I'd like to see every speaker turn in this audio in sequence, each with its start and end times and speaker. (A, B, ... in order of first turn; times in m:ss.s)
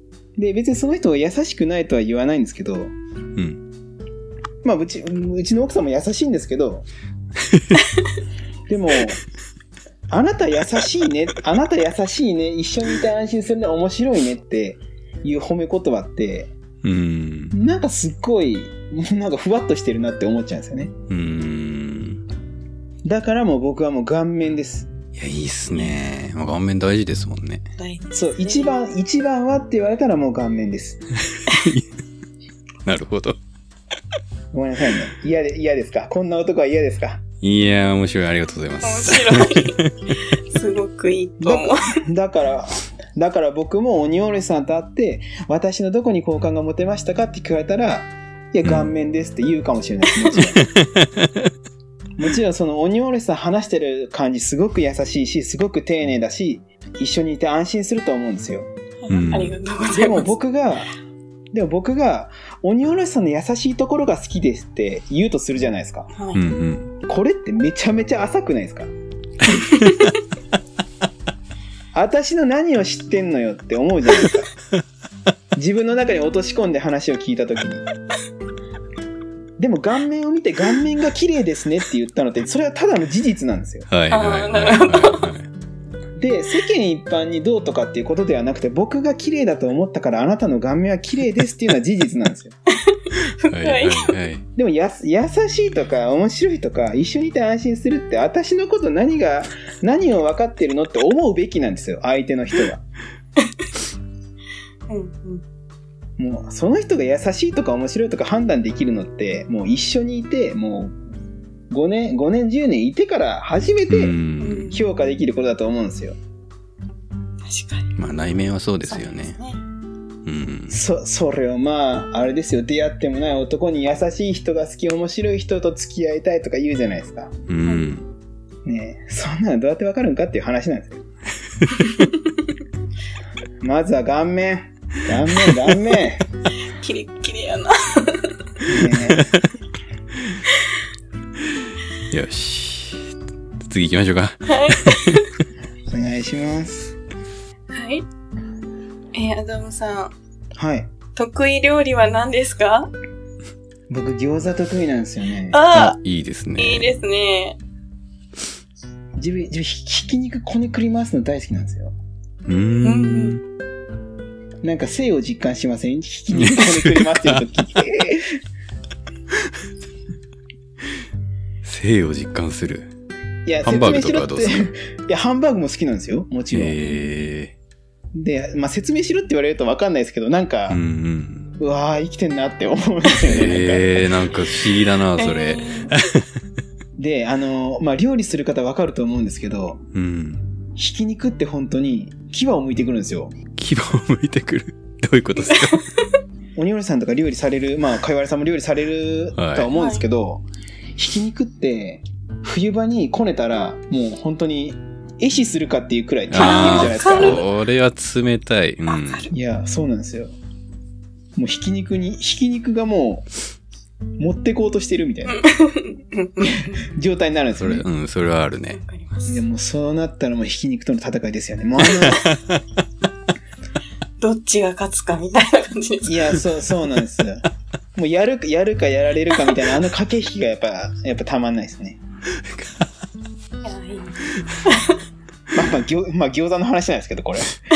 0:00.4-0:02.9 A
0:03.3-0:03.6 B
0:04.6-0:06.9 A
0:07.5-0:07.8 B
0:08.7-0:09.2 A
0:10.1-0:16.5 A
0:16.8-0:17.5 B
0:17.5-0:20.9 A
0:21.1-0:22.2 B
0:23.0-0:24.9 A
0:25.1-0:27.7 B
0:25.7-0:26.0 C
0:27.8-0:28.7 C
0:28.1-0:31.0 A
0:31.3-0:31.9 B
0:32.8-0:33.4 B
0:34.5-0:37.2 A
0:37.4-0:39.9 B
0:38.8-0:39.8 C
0:40.3-0:42.0 C
0:41.4-0:50.7 A
0:48.6-0:48.9 B
0:50.3-0:51.1 B
0:52.2-0:58.7 A
0:59.0-1:00.3 C
0:59.1-0:59.5 B
0:59.9-1:00.9 A
1:01.5-1:06.1 A
1:06.1-1:06.4 C
1:06.3-1:06.9 B
1:07.0-1:08.9 A
1:09.6-1:10.0 C
1:11.9-1:14.5 A
1:15.5-1:17.8 A
1:19.6-1:23.9 A
1:23.9-1:25.5 B
1:24.1-1:25.3 C
1:26.2-1:32.6 A
1:32.8-1:34.2 C
1:33.5-1:34.4 B
1:34.6-1:42.8 A
1:44.9-1:45.4 C
1:46.2-1:51.0 A
1:51.7-1:56.2 A
1:53.9-1:54.8 B
1:54.4-1:54.8 C
1:57.4-1:57.9 C
1:58.0-1:59.4 B
1:58.8-1:59.6 C
2:00.2-2:00.8 B
2:00.7-2:07.3 A
2:07.5-2:08.0 B
2:07.6-2:07.9 C
2:08.6-2:11.0 A
2:13.6-2:16.2 A
2:16.7-2:18.4 C
2:18.7-2:19.2 A
2:18.9-2:19.4 B
2:22.1-2:25.2 B
2:24.4-2:25.2 C
2:25.9-2:26.9 A
2:27.7-2:28.0 C
2:29.1-2:30.1 C
2:30.5-2:30.9 A
2:31.2-2:32.9 C
2:33.9-2:35.7 A
2:35.5-2:36.0 C
2:35.7-2:36.9 B
2:36.6-2:37.6 C
2:39.2-2:41.9 A
2:42.5-2:43.4 B
2:42.8-2:43.4 C
2:44.6-2:48.4 A
2:46.3-2:47.4 B
2:51.6-2:52.9 B
2:53.4-2:56.8 A
2:53.6-2:54.7 B
2:56.5-2:57.5 B
2:58.1-3:00.8 A
3:00.7-3:01.5 B
3:01.6-3:04.1 A
3:03.2-3:06.2 B
3:05.2-3:05.9 C
3:07.0-3:09.8 A
3:09.9-3:10.4 B
3:10.8-3:13.3 A
3:13.6-3:15.8 B
3:16.6-3:20.4 A
3:19.4-3:19.7 B
3:19.7-3:20.0 C
3:21.0-3:27.4 A
3:26.3-3:29.3 B
3:26.3-3:27.5 C
3:28.9-3:29.3 C
3:29.3-3:30.3 A
3:31.4-3:33.2 A
3:34.2-3:35.4 A
3:35.3-3:36.8 C
3:36.4-3:37.8 A
3:37.5-3:38.8 B
3:38.7-3:39.4 C
3:39.3-3:42.3 A
3:41.9-3:42.6 B
3:44.2-3:46.4 C
3:46.0-3:52.0 A
3:52.4-3:52.8 B
3:53.6-3:55.0 C
3:55.5-3:57.5 A